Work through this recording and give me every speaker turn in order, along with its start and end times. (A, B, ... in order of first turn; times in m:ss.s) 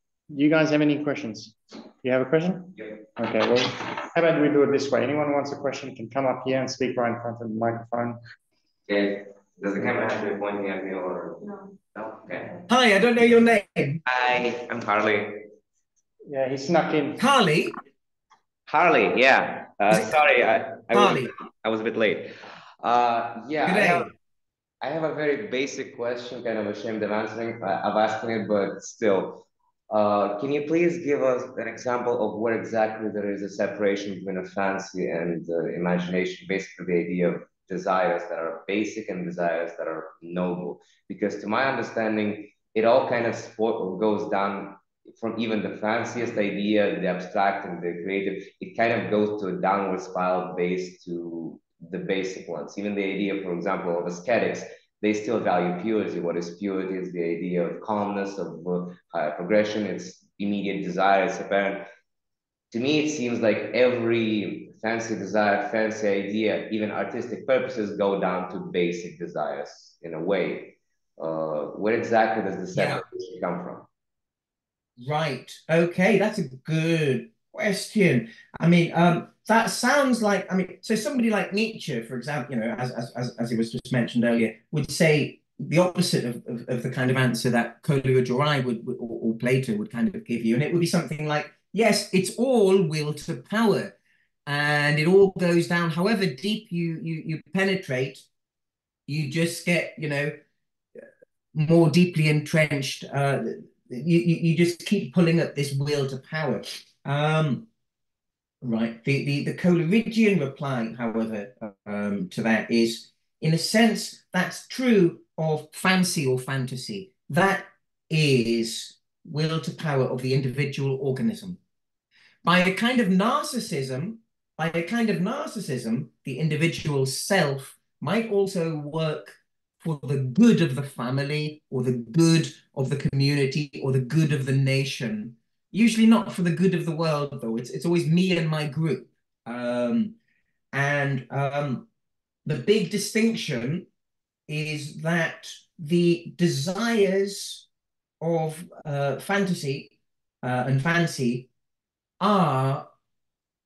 0:00.3-0:08.2 A
0:08.9-0:12.6 B
0:12.7-0:14.0 C
0:14.0-0:15.4 B
0:16.3-0:17.2 A
0:17.2-0:17.8 C
0:18.7-0:24.1 B
0:20.9-0:21.3 C
0:23.6-0:24.1 C
0:24.8-1:01.8 B
1:02.7-1:13.8 B
1:12.7-1:13.0 C
1:15.0-1:33.9 C
1:34.4-1:38.2 C
1:39.1-1:40.3 C
1:41.5-1:47.7 C
1:48.6-2:01.6 C
2:02.4-2:20.1 C
2:20.7-2:21.8 C
2:22.4-2:23.8 C
2:24.5-2:27.6 C
2:28.2-2:29.9 C
2:30.4-2:31.5 C
2:32.2-2:32.8 C